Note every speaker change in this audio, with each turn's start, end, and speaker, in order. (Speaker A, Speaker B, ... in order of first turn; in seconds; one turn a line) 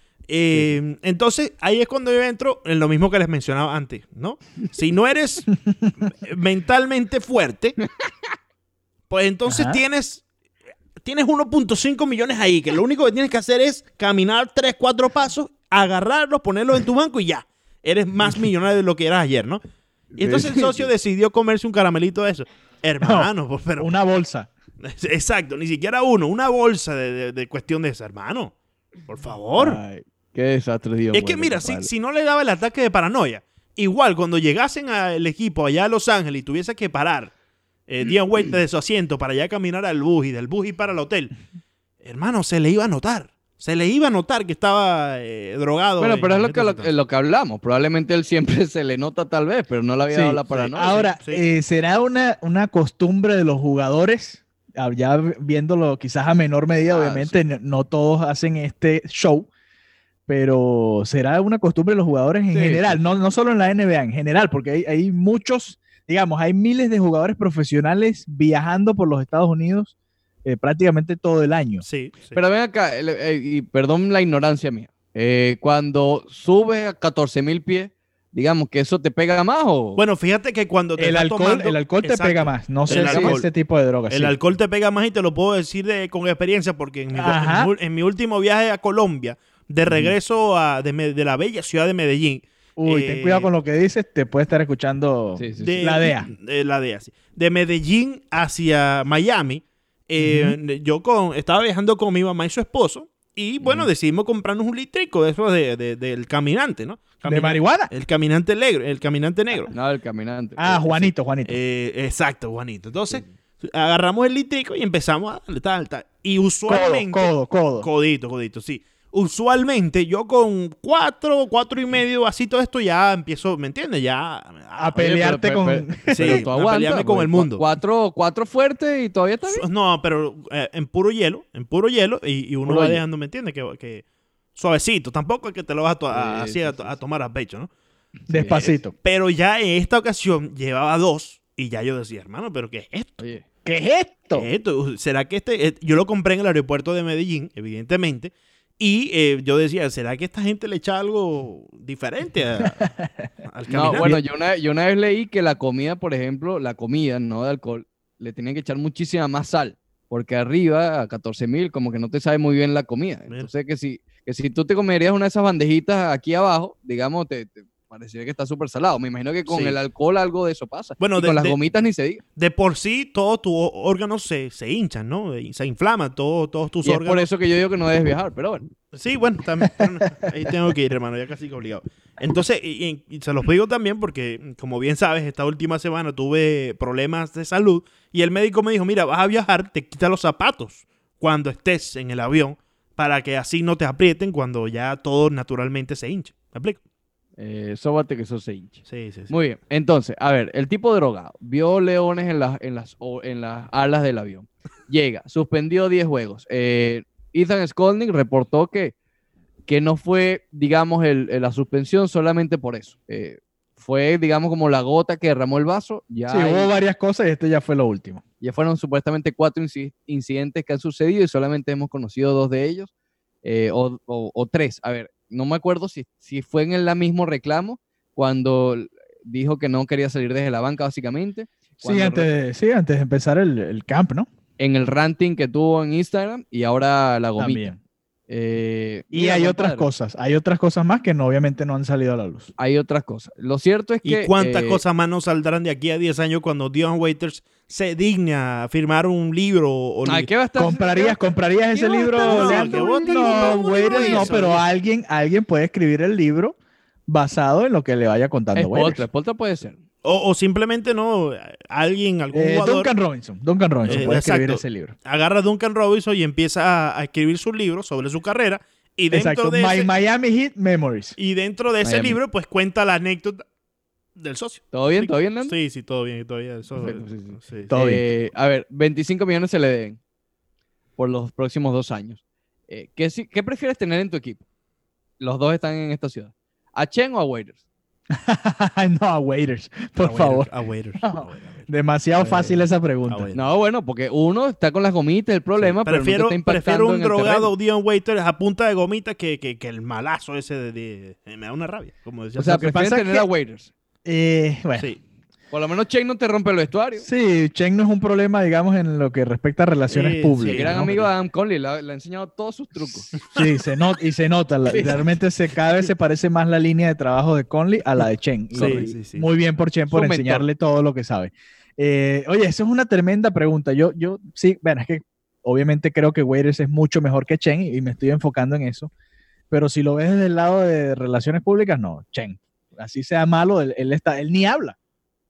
Speaker A: 0.3-5.5
Speaker A: 6.1-7.8
Speaker A: 9.1-10.2
Speaker B: 9.5-9.8
Speaker A: 11.0-19.6
Speaker C: 20.1-20.9
Speaker A: 20.2-23.9
Speaker B: 23.0-24.5
Speaker A: 24.8-28.5
Speaker A: 29.1-29.8
Speaker C: 29.6-31.9
Speaker A: 31.1-37.3
Speaker A: 37.9-41.3
Speaker A: 42.0-46.9
Speaker C: 46.0-51.1
Speaker B: 50.1-59.5
Speaker C: 56.9-57.4
Speaker B: 60.3-69.9
Speaker C: 62.5-62.9
Speaker B: 70.5-71.8
Speaker A: 71.8-72.4
Speaker C: 72.3-80.0
Speaker A: 80.0-83.5
Speaker B: 81.0-84.3
Speaker C: 82.9-83.4
Speaker A: 84.1-93.5
Speaker B: 87.2-87.7
Speaker B: 92.8-96.3
Speaker C: 95.4-95.9
Speaker A: 95.6-109.7
Speaker B: 100.2-100.6
Speaker B: 107.2-107.9
Speaker C: 109.7-111.1
Speaker B: 110.6-111.6
Speaker A: 111.5-125.0
Speaker B: 116.7-117.9
Speaker B: 124.8-126.5
Speaker C: 125.0-129.7
Speaker A: 126.1-127.7
Speaker A: 129.5-134.0
Speaker C: 132.7-133.0
Speaker A: 134.6-137.7
Speaker C: 136.1-137.0
Speaker C: 138.3-138.7
Speaker B: 138.3-138.9
Speaker A: 138.5-143.2
Speaker C: 143.2-143.4
Speaker B: 143.7-144.5
Speaker A: 144.3-152.9
Speaker B: 152.7-153.2
Speaker A: 153.4-154.2
Speaker C: 153.7-172.2
Speaker B: 153.9-154.2
Speaker A: 169.5-169.8
Speaker A: 171.0-171.6
Speaker A: 172.4-177.3
Speaker C: 176.8-178.7
Speaker A: 178.9-196.8
Speaker C: 197.4-208.9
Speaker A: 198.9-199.3
Speaker C: 209.7-216.7
Speaker B: 216.3-218.2
Speaker C: 218.4-222.9
Speaker C: 223.4-232.3
Speaker B: 231.8-234.3
Speaker C: 234.6-237.7
Speaker B: 237.4-237.8
Speaker C: 238.3-239.9
Speaker B: 239.1-242.5
Speaker C: 242.6-244.8
Speaker A: 244.1-250.3
Speaker C: 250.1-254.6
Speaker B: 250.6-256.6
Speaker A: 252.2-254.6
Speaker B: 257.1-259.1
Speaker C: 258.6-259.8
Speaker A: 260.0-262.9
Speaker B: 262.3-264.9
Speaker A: 263.9-269.9
Speaker B: 269.1-271.1
Speaker A: 271.2-273.4
Speaker C: 271.8-272.2
Speaker A: 274.2-277.7
Speaker C: 274.7-275.6
Speaker C: 276.8-280.0
Speaker B: 277.7-278.1
Speaker C: 281.0-284.4
Speaker C: 285.2-287.6
Speaker B: 288.1-290.5
Speaker A: 290.0-291.7
Speaker B: 291.0-293.3
Speaker C: 292.2-292.6
Speaker A: 293.1-293.5
Speaker C: 293.3-297.5
Speaker A: 295.6-302.7
Speaker C: 302.4-303.7
Speaker B: 302.5-303.3
Speaker B: 304.1-304.9
Speaker C: 305.5-307.1
Speaker B: 307.0-310.9
Speaker A: 309.9-311.1
Speaker C: 310.5-313.1
Speaker A: 313.1-313.5
Speaker B: 313.2-328.9
Speaker C: 314.7-315.1
Speaker C: 318.5-318.9
Speaker A: 318.5-319.3
Speaker C: 319.9-320.4
Speaker B: 329.5-334.8